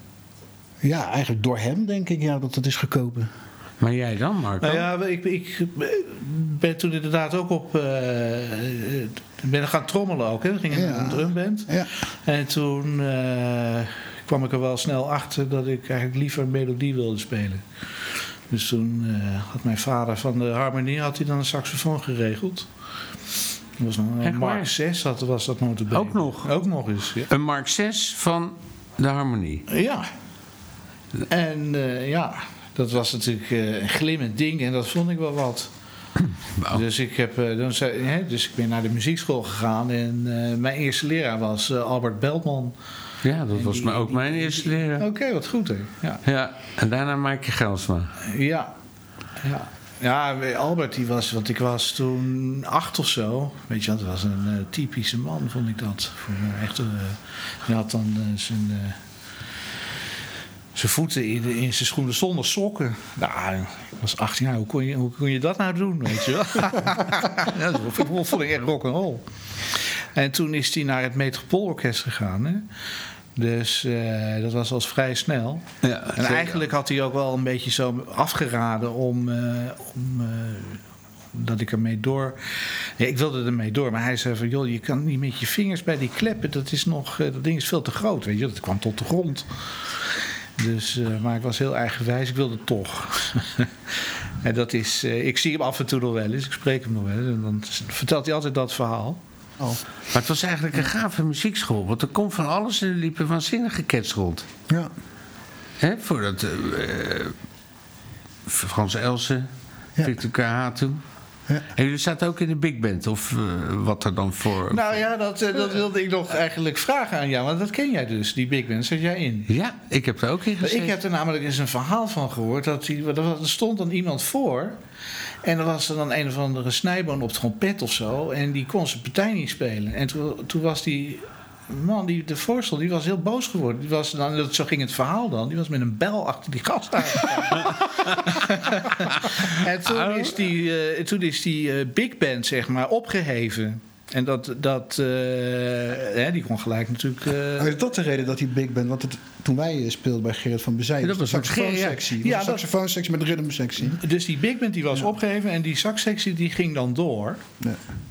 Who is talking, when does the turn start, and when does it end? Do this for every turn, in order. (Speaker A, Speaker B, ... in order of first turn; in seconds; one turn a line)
Speaker A: 0.8-3.3
Speaker B: 3.8-4.9
Speaker C: 4.6-22.7
Speaker A: 10.7-11.9
Speaker C: 23.8-27.3
Speaker B: 24.2-24.7
Speaker B: 25.9-26.5
Speaker B: 27.3-29.7
Speaker C: 29.7-30.1
Speaker C: 31.3-35.7
Speaker C: 36.7-42.8
Speaker B: 43.2-45.1
Speaker C: 43.5-46.2
Speaker B: 46.2-48.2
Speaker C: 48.2-48.7
Speaker C: 49.4-59.0
Speaker C: 60.8-72.7
Speaker C: 73.3-90.1
Speaker B: 75.8-76.6
Speaker C: 90.6-99.2
Speaker B: 100.1-104.5
Speaker B: 105.8-107.3
Speaker B: 108.5-109.5
Speaker B: 110.0-111.0
Speaker B: 111.8-115.0
Speaker C: 114.7-119.5
Speaker B: 119.5-121.0
Speaker C: 120.6-124.8
Speaker C: 125.4-147.8
Speaker B: 140.0-140.3
Speaker A: 147.6-154.0
Speaker B: 151.0-152.1
Speaker C: 152.2-152.7
Speaker C: 153.8-157.4